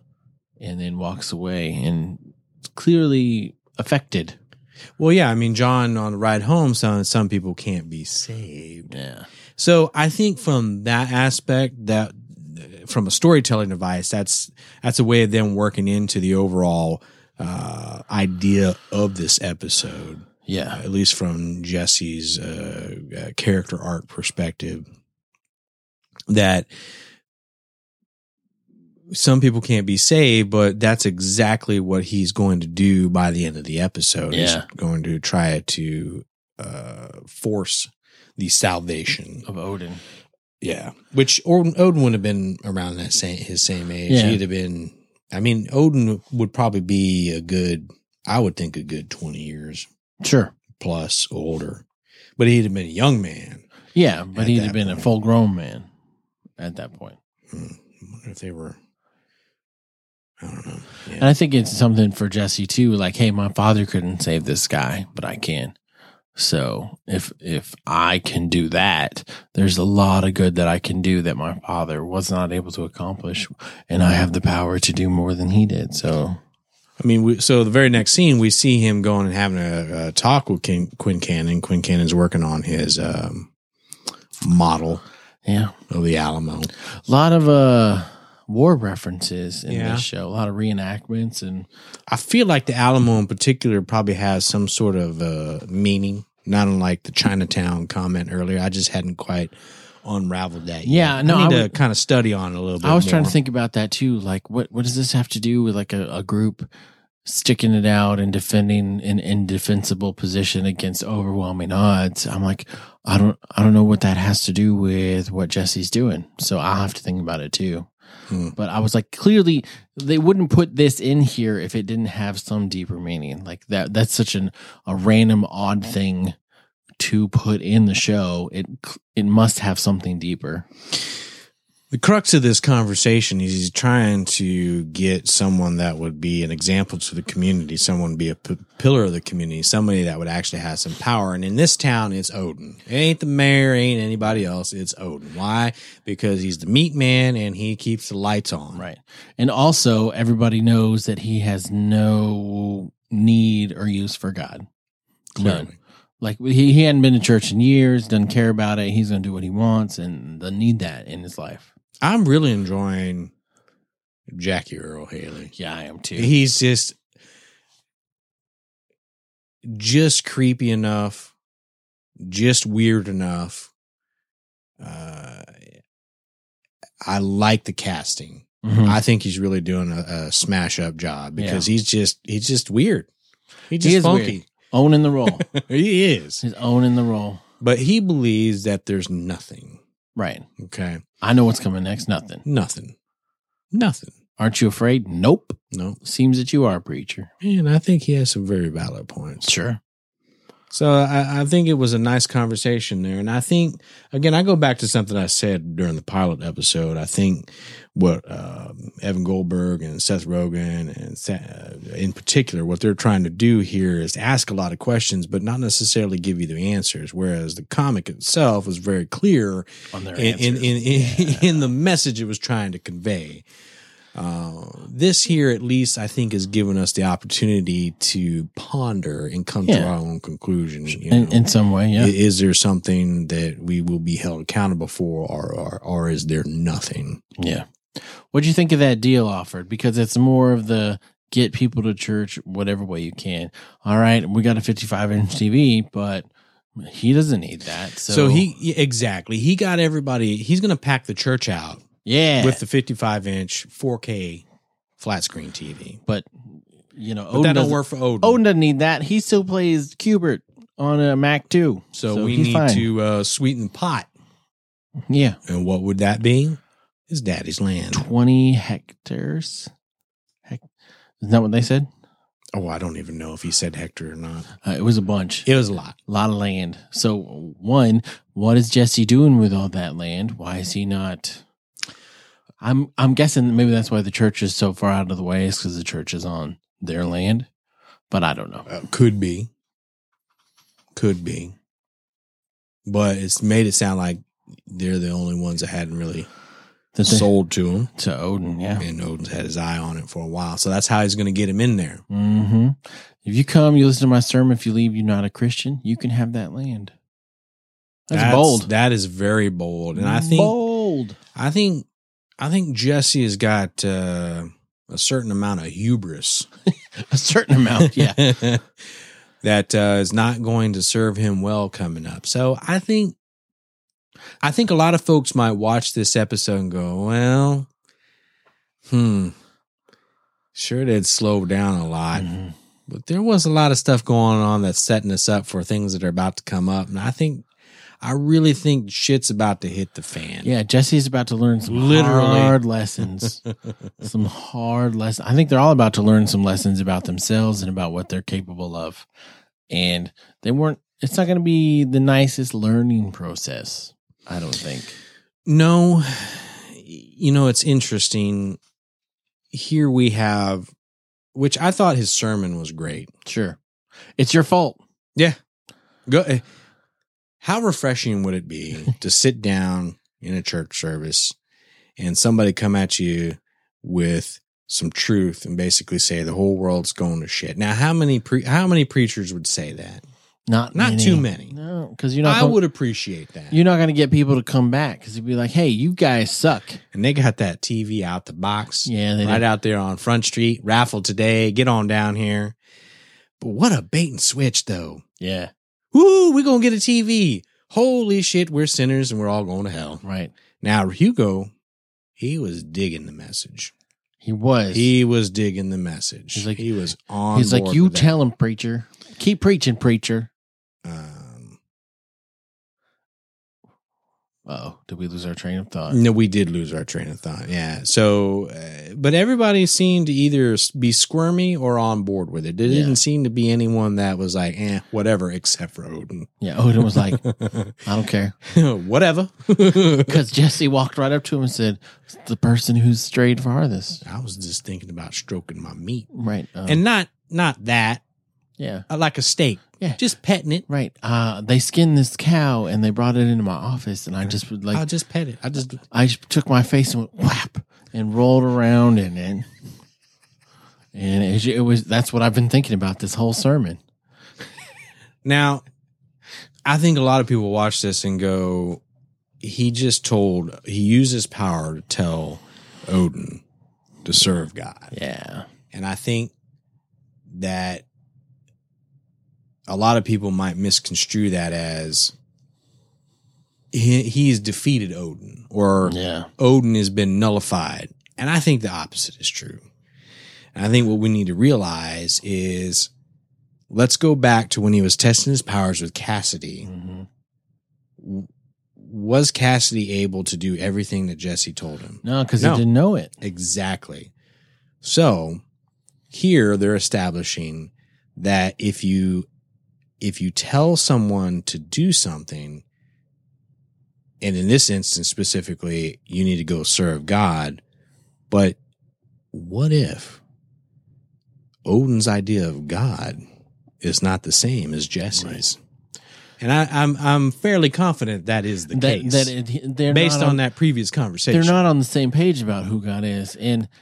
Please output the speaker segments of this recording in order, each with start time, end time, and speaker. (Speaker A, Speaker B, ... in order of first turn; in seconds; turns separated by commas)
Speaker A: 0.6-4.4, Speaker B: 5.0-8.9, Speaker A: 8.9-9.3, Speaker B: 9.6-24.8, Speaker A: 20.4-20.8, Speaker B: 26.3-26.7, Speaker B: 29.1-39.5, Speaker A: 34.3-34.7, Speaker A: 39.4-40.0, Speaker B: 40.6-49.9, Speaker A: 44.1-44.4, Speaker A: 50.2-50.5, Speaker B: 50.8-51.8, Speaker B: 52.4-53.6, Speaker A: 53.9-55.9, Speaker B: 54.3-55.1, Speaker A: 56.6-57.2, Speaker B: 57.5-58.8, Speaker B: 60.4-61.3, Speaker A: 61.2-65.7, Speaker A: 66.4-76.4, Speaker B: 77.0-83.5, Speaker B: 84.4-85.0, Speaker A: 85.4-85.7, Speaker B: 85.9-86.7, Speaker A: 86.8-91.7, Speaker B: 89.7-90.0, Speaker B: 92.1-103.3, Speaker A: 100.8-101.7, Speaker A: 102.8-106.7, Speaker A: 107.2-117.9, Speaker B: 118.3-118.5, Speaker A: 118.5-126.3, Speaker A: 127.0-130.7, Speaker B: 131.9-148.8, Speaker A: 148.7-154.7, Speaker A: 155.3-161.7, Speaker B: 155.4-155.7, Speaker B: 162.0-163.3, Speaker B: 164.3-165.5, Speaker A: 165.5-166.3, Speaker B: 166.2-167.0, Speaker B: 169.6-171.3, Speaker B: 172.2-173.7, Speaker B: 174.8-175.6, Speaker B: 177.0-183.1, Speaker A: 178.6-179.0, Speaker A: 181.4-181.7, Speaker B: 183.7-184.4, Speaker A: 183.8-185.5, Speaker B: 185.4-186.4, Speaker A: 186.4-187.4, Speaker B: 187.6-189.8, Speaker A: 190.2-190.5, Speaker B: 190.6-191.0, Speaker A: 191.2-192.4, Speaker B: 192.4-192.9, Speaker B: 193.7-194.1, Speaker A: 194.4-197.3, Speaker B: 195.7-196.0, Speaker B: 197.4-199.5, Speaker A: 199.4-199.8, Speaker B: 200.7-223.4, Speaker A: 219.9-221.7, Speaker B: 224.1-231.4, Speaker A: 229.7-229.9, Speaker A: 230.9-232.1, Speaker B: 231.9-237.2, Speaker A: 237.4-248.5, Speaker B: 248.1-251.8, Speaker A: 252.0-252.6, Speaker B: 252.4-254.4, Speaker B: 255.0-256.0, Speaker A: 256.1-262.9, Speaker B: 257.3-258.4, Speaker B: 261.9-264.1, Speaker A: 265.1-265.4, Speaker B: 265.5-268.1, Speaker A: 267.9-269.7, Speaker A: 271.2-271.9, Speaker B: 272.5-274.5, Speaker A: 274.6-275.5, Speaker B: 275.4-275.9, Speaker A: 276.1-281.4, Speaker A: 282.6-287.5, Speaker A: 288.1-288.7, Speaker B: 288.7-289.5, Speaker B: 290.9-291.5, Speaker B: 292.9-296.3, Speaker A: 296.9-297.3, Speaker B: 297.0-297.9, Speaker A: 297.9-298.8, Speaker B: 298.8-302.0, Speaker A: 302.1-306.9, Speaker A: 308.1-308.7, Speaker B: 308.1-310.5, Speaker A: 309.9-311.2, Speaker B: 311.3-311.9, Speaker B: 312.4-316.5, Speaker A: 316.8-318.4, Speaker B: 317.8-318.7, Speaker B: 319.4-323.1, Speaker B: 324.4-327.7, Speaker B: 328.8-329.3, Speaker B: 330.5-332.3, Speaker A: 332.1-332.5, Speaker B: 332.9-337.4, Speaker B: 338.0-340.5, Speaker A: 340.4-343.4, Speaker B: 341.7-342.6, Speaker A: 344.0-349.1, Speaker A: 349.7-355.0, Speaker B: 355.4-358.6, Speaker B: 359.5-360.7, Speaker B: 361.3-363.1, Speaker A: 363.2-363.6, Speaker A: 364.2-364.8, Speaker B: 366.1-366.4, Speaker B: 367.4-371.3, Speaker B: 372.0-380.0, Speaker A: 380.5-382.6, Speaker B: 380.7-381.5, Speaker B: 382.2-383.6, Speaker A: 383.5-386.8, Speaker B: 386.9-392.6, Speaker A: 388.9-389.4, Speaker B: 393.4-395.0, Speaker A: 395.2-395.5, Speaker B: 395.9-400.0, Speaker A: 400.0-400.3, Speaker B: 400.6-401.5, Speaker B: 402.2-403.7, Speaker A: 404.2-404.9, Speaker B: 404.7-408.1, Speaker A: 406.3-406.6, Speaker A: 407.3-410.3, Speaker B: 410.8-411.6, Speaker A: 414.5-416.0, Speaker B: 415.9-426.3, Speaker A: 422.7-423.0, Speaker A: 426.4-427.2, Speaker B: 426.8-427.7, Speaker A: 427.8-428.4, Speaker B: 428.4-430.2, Speaker A: 430.0-434.0, Speaker B: 434.0-436.1, Speaker A: 436.1-436.8, Speaker B: 436.7-438.0, Speaker A: 438.6-438.9, Speaker B: 438.9-440.6, Speaker A: 440.7-444.8, Speaker B: 444.7-445.8, Speaker A: 445.8-449.5, Speaker A: 450.9-453.8, Speaker B: 455.2-455.6, Speaker B: 456.6-458.8, Speaker B: 459.4-463.4, Speaker B: 464.0-464.9, Speaker A: 464.9-465.5, Speaker B: 465.7-466.3, Speaker B: 467.3-467.8, Speaker B: 469.7-472.1, Speaker B: 473.7-479.6, Speaker A: 475.8-476.3, Speaker B: 480.5-482.9, Speaker B: 483.7-486.7, Speaker A: 486.6-487.1, Speaker B: 488.0-492.6, Speaker A: 492.0-493.1, Speaker B: 493.2-494.1, Speaker B: 494.8-495.4, Speaker B: 496.1-499.3, Speaker B: 500.0-502.6, Speaker B: 504.2-507.6, Speaker B: 508.3-508.6, Speaker B: 509.3-510.2, Speaker B: 511.6-513.2, Speaker B: 513.8-515.6, Speaker A: 515.1-515.4, Speaker B: 516.4-519.3, Speaker A: 518.7-520.4, Speaker B: 519.9-521.6, Speaker A: 521.3-523.7